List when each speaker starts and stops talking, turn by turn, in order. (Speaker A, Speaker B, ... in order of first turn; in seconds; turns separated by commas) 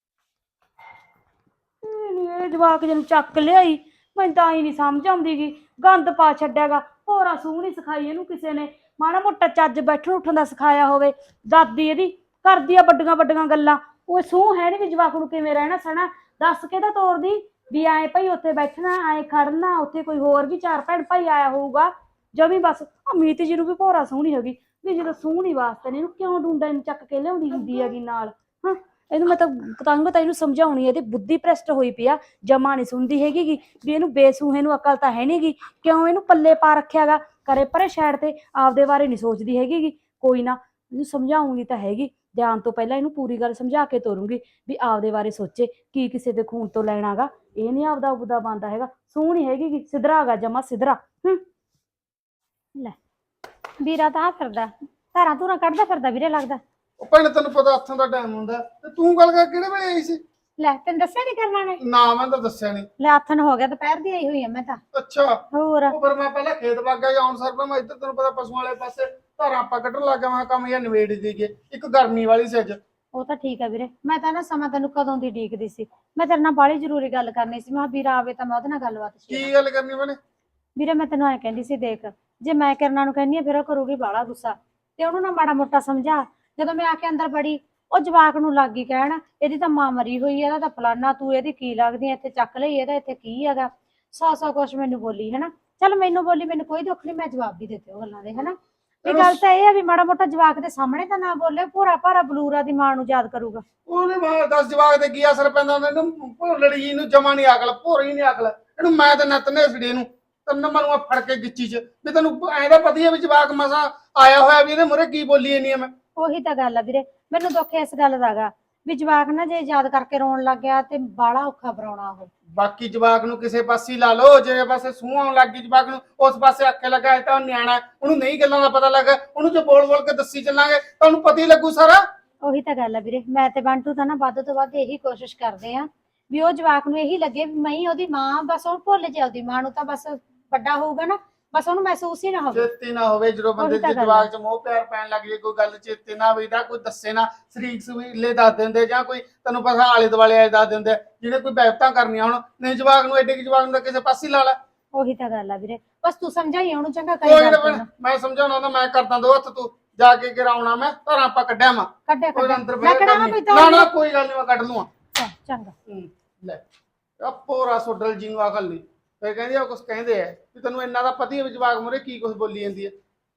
Speaker A: 1.8-51.4, Speaker B: 53.8-56.6, Speaker C: 57.0-60.2, Speaker B: 60.6-61.8, Speaker C: 61.8-62.9, Speaker B: 63.0-64.8, Speaker C: 64.9-72.8, Speaker B: 65.5-66.0, Speaker B: 73.1-79.5, Speaker C: 79.3-80.2, Speaker B: 80.8-103.6, Speaker C: 99.0-99.4, Speaker C: 103.9-115.9, Speaker B: 116.2-122.3, Speaker C: 122.5-132.0, Speaker B: 132.4-142.7, Speaker C: 142.5-154.6, Speaker B: 143.6-144.3, Speaker B: 154.9-157.9, Speaker C: 157.2-164.9, Speaker B: 162.1-163.9, Speaker B: 165.2-165.7, Speaker C: 165.9-166.6, Speaker C: 167.2-172.9